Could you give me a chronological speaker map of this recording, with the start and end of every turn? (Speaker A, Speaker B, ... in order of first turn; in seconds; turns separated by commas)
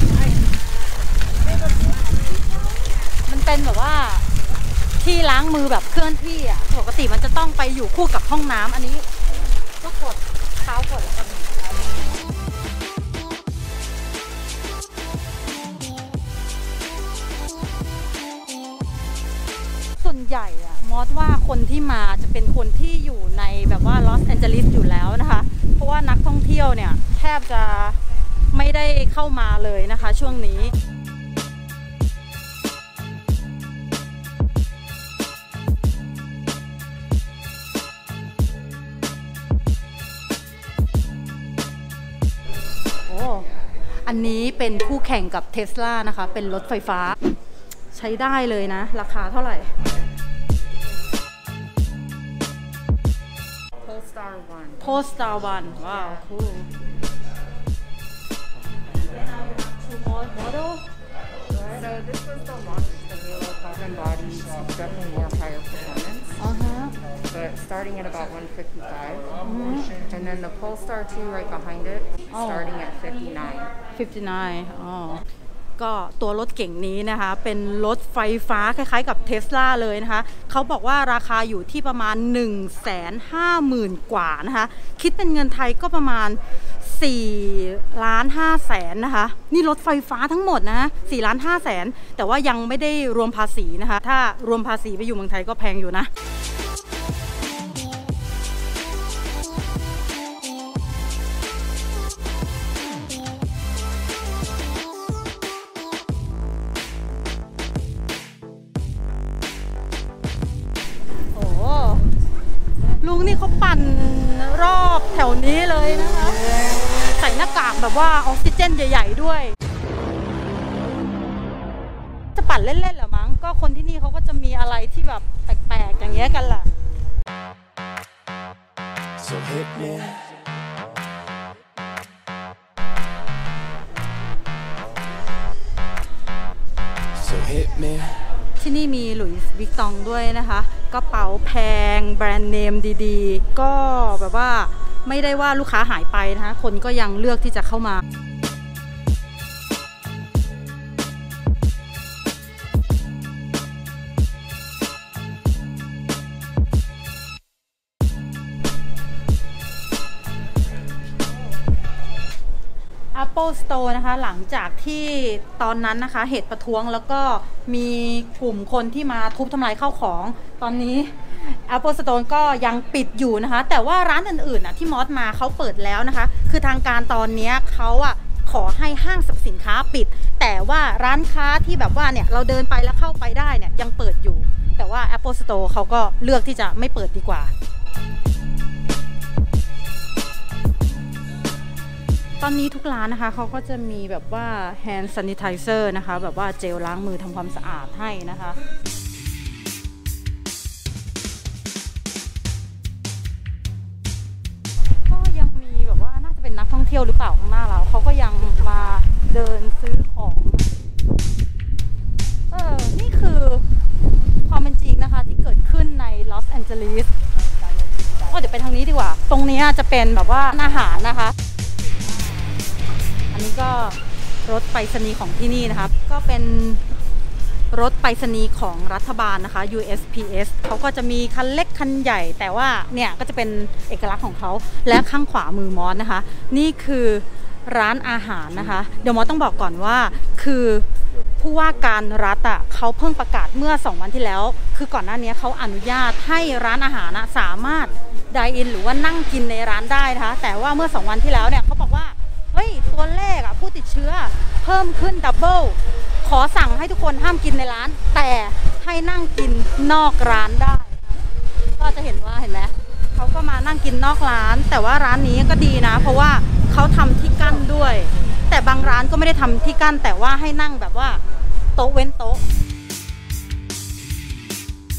Speaker A: 3.2-4.3, Speaker A: 5.0-9.1, Speaker A: 9.8-11.9, Speaker A: 20.0-28.0, Speaker A: 28.5-30.7, Speaker A: 43.1-43.5, Speaker A: 44.0-47.2, Speaker A: 47.9-49.7, Speaker B: 53.9-54.8, Speaker A: 54.8-56.6, Speaker A: 60.0-60.8, Speaker B: 61.6-66.3, Speaker A: 66.4-66.9, Speaker B: 67.2-69.3, Speaker A: 69.4-70.0, Speaker B: 70.0-73.7, Speaker A: 72.3-72.8, Speaker A: 73.8-75.2, Speaker A: 75.8-96.1, Speaker A: 111.3-112.0, Speaker A: 113.0-116.4, Speaker A: 117.1-119.5, Speaker A: 122.3-126.7, Speaker C: 129.2-130.2, Speaker C: 137.2-138.2, Speaker A: 138.6-148.0, Speaker A: 163.1-187.5, Speaker A: 192.4-198.6, Speaker A: 205.1-210.7, Speaker A: 212.5-213.6, Speaker A: 214.4-217.1, Speaker A: 218.1-221.3, Speaker A: 223.3-226.8, Speaker A: 227.7-240.9, Speaker A: 241.4-261.1, Speaker A: 261.8-271.2, Speaker A: 271.8-272.4